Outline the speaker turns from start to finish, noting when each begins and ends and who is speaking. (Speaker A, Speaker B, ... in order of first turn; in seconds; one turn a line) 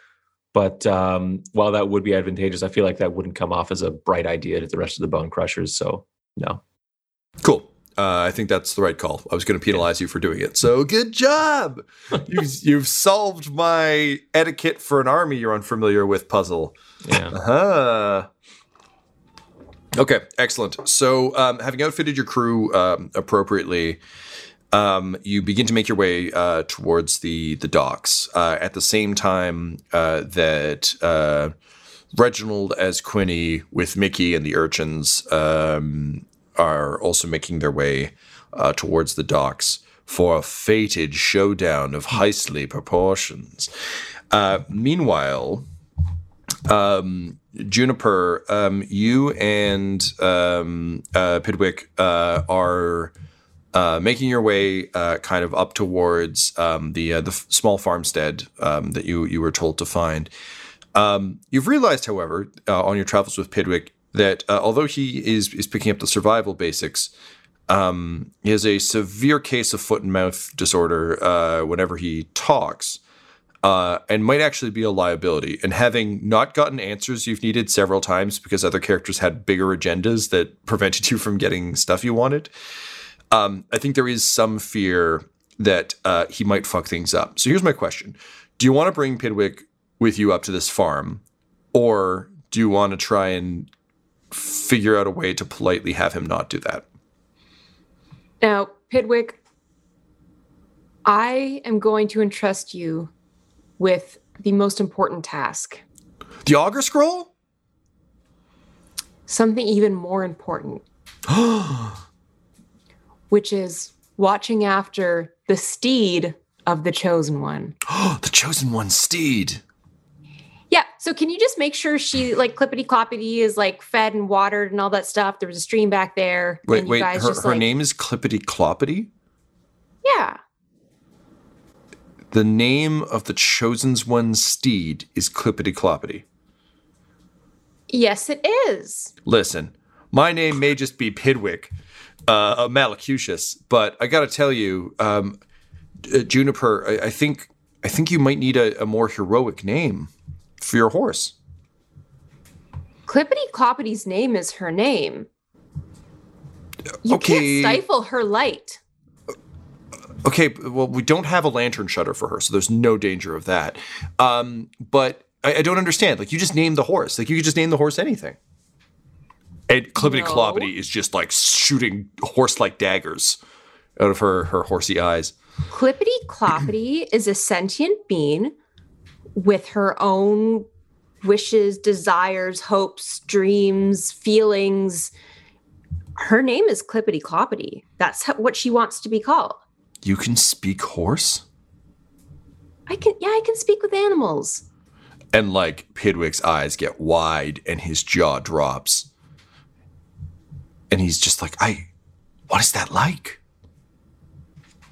Speaker A: 0.5-6.6
Speaker B: 7.4-16.8
Speaker A: 17.0-17.4
Speaker B: 17.3-18.3
Speaker B: 19.9-24.0
Speaker B: 24.7-31.5
Speaker B: 32.1-43.7
Speaker B: 44.3-45.6
Speaker B: 46.6-53.1
Speaker B: 53.7-60.3
Speaker B: 60.9-67.1
Speaker B: 67.7-73.0
Speaker B: 73.6-82.5
Speaker B: 83.3-91.2
Speaker B: 91.7-93.7
Speaker B: 94.3-96.8
Speaker C: 98.4-99.4
Speaker C: 101.0-103.1
Speaker C: 103.8-105.8
Speaker B: 106.4-107.3
Speaker C: 109.3-110.8
Speaker B: 111.3-112.0
Speaker C: 113.3-117.7
Speaker B: 117.8-119.6
Speaker C: 120.7-127.7
Speaker B: 126.7-129.1
Speaker C: 130.0-130.4
Speaker B: 132.3-136.2
Speaker C: 137.9-139.1
Speaker B: 139.2-141.7
Speaker B: 142.3-145.4
Speaker B: 146.1-151.3
Speaker C: 153.1-155.3
Speaker B: 157.0-157.8
Speaker C: 157.0-158.8
Speaker B: 160.2-168.4
Speaker B: 169.7-173.4
Speaker C: 170.0-170.7
Speaker B: 174.0-175.3
Speaker C: 175.7-178.5
Speaker C: 179.3-180.7
Speaker C: 181.2-185.1
Speaker C: 186.2-189.6
Speaker B: 190.0-191.4
Speaker C: 192.9-194.6
Speaker B: 195.3-199.1
Speaker B: 200.9-201.9
Speaker B: 202.5-203.4